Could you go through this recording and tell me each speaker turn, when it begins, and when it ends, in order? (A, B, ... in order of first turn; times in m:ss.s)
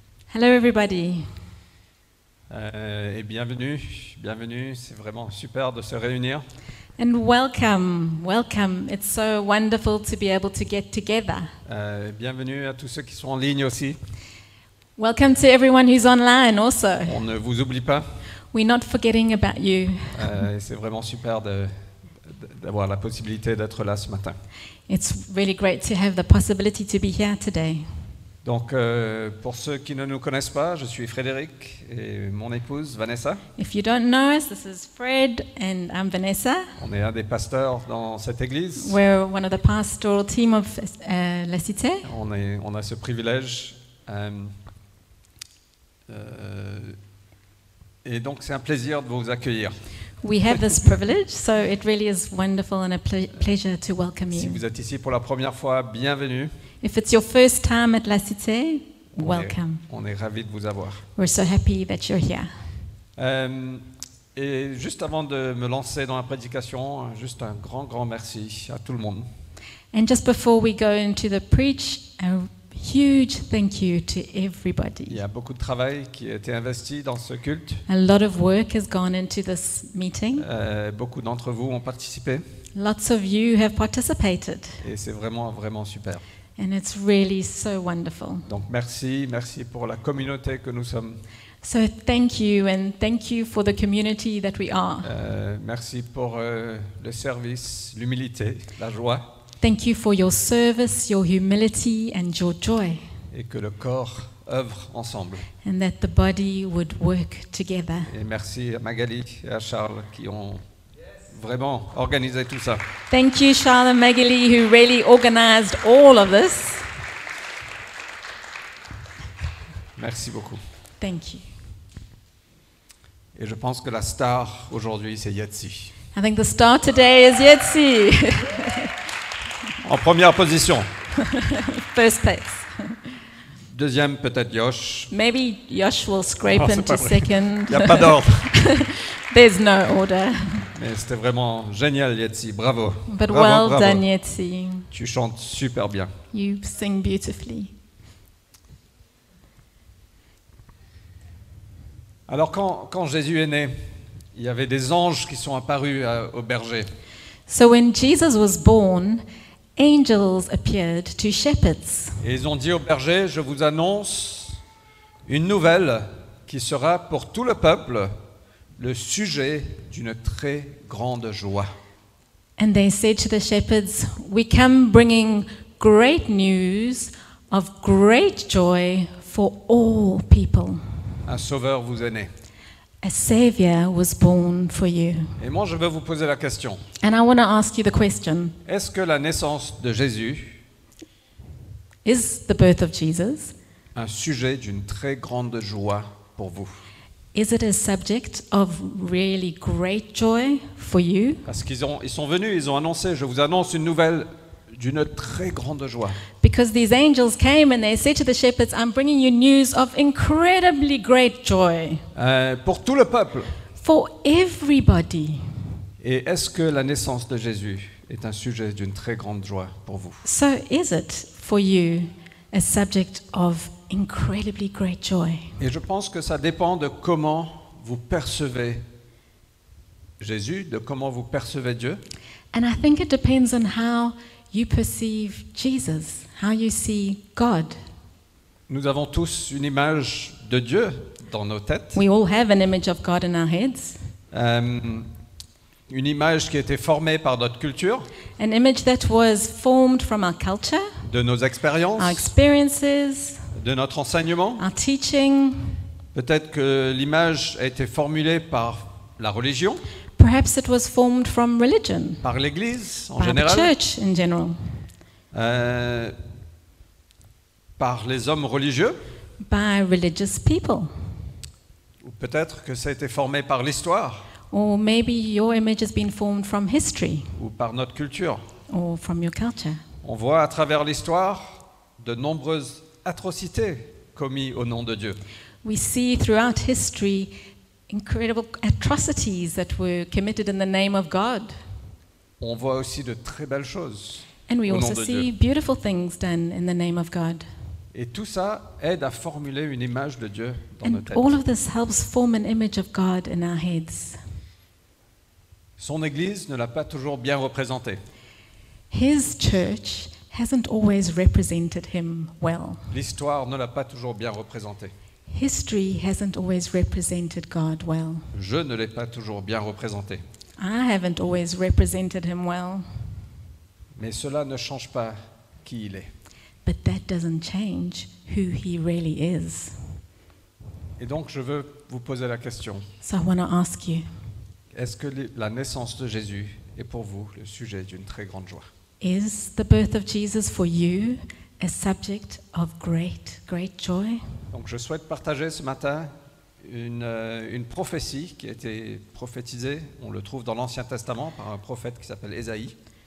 0:00.3-0:01.4 A
0:02.5-0:06.5 B
0:07.0-0:11.6 A
0:11.7-0:14.0 B
0:15.0-0:17.2 A
0:17.0-0:18.2 B
0:18.5-0:20.4 A
0:20.1-0:24.4 B
0:24.9-0:28.1 A
0:28.4-0:33.4 B
0:33.6-0:36.8 A
0:36.8-0:39.0 B
0:38.8-0:42.1 A
0:42.0-0:44.6 B
0:46.1-0:47.0 B
0:48.0-0:49.9 B
0:50.2-0:54.6 A
0:54.3-0:56.5 B
0:56.8-0:59.8 A
0:59.2-1:01.1 B
1:01.2-1:02.5 A
1:03.2-1:09.3 B
1:09.9-1:15.2 A
1:15.1-1:17.9 B
1:17.9-1:20.4 A
1:20.3-1:22.4 B
1:22.8-1:24.8 A
1:24.8-1:26.2 B
1:26.6-1:28.5 A
1:28.4-1:31.2 B
1:31.6-1:35.2 A
1:35.0-1:39.3 B
1:39.6-1:43.1 A
1:43.3-1:45.5 B
1:45.6-1:48.1 A
1:48.1-1:50.6 B
1:51.2-1:52.9 B
1:53.1-1:56.9 A
2:00.0-2:00.6 B
2:01.0-2:01.5 A
2:03.4-2:05.9 B
2:06.1-2:08.9 A
2:09.8-2:10.9 B
2:11.2-2:13.0 A
2:13.7-2:15.1 B
2:15.1-2:20.7 A
2:16.5-2:18.5 B
2:20.7-2:24.0 B
2:23.1-2:24.9 A
2:24.9-2:26.2 B
2:26.3-2:27.7 A
2:32.3-2:36.9 B
2:37.5-2:39.2 A
2:39.8-2:42.2 A
2:42.2-2:44.6 B
2:45.2-2:48.2 B
2:48.8-2:51.8 B
2:52.6-3:00.8 A
3:01.2-3:02.3 B
3:03.0-3:05.4 A
3:05.4-3:06.8 B
3:07.0-3:08.6 A
3:08.7-3:10.6 B
3:12.0-3:13.6 A
3:13.9-3:16.8 B
3:17.3-3:21.5 A
3:21.4-3:26.2 B
3:26.4-3:32.1 A
3:32.2-3:33.6 B
3:33.8-3:35.7 A
3:36.0-3:40.2 B
3:40.2-3:45.6 A
3:45.6-3:48.8 B
3:50.2-3:52.0 B
3:52.5-3:57.8 A
3:58.7-4:02.0 B
4:01.9-4:04.1 A
4:04.3-4:05.1 B
4:05.9-4:08.1 B
4:08.4-4:11.1 A
4:11.1-4:12.3 B
4:12.0-4:13.5 A
4:13.5-4:14.6 B
4:14.6-4:15.8 A
4:16.1-4:19.8 B
4:20.2-4:22.3 A
4:22.2-4:23.7 B
4:23.2-4:24.8 A
4:25.3-4:26.2 B
4:27.8-4:29.0 B
4:29.4-4:31.1 A
4:32.0-4:34.3 B
4:34.5-4:37.4 A
4:37.4-4:38.4 B
4:38.7-4:39.8 A
4:40.0-4:45.2 B
4:45.6-4:47.3 A
4:47.9-4:51.7 A
4:52.4-4:55.3 B
4:54.5-4:57.5 A
4:57.9-5:01.4 B
5:00.8-5:04.2 A
5:05.8-5:08.0 B
5:08.9-5:12.9 A
5:12.9-5:14.9 B
5:15.3-5:18.3 A
5:18.3-5:20.2 B
5:20.6-5:23.1 A
5:24.0-5:26.1 B
5:26.6-5:30.0 A
5:31.0-5:32.9 B
5:33.0-5:34.1 A
5:34.7-5:38.7 B
5:39.0-5:44.4 A
5:44.5-5:52.8 B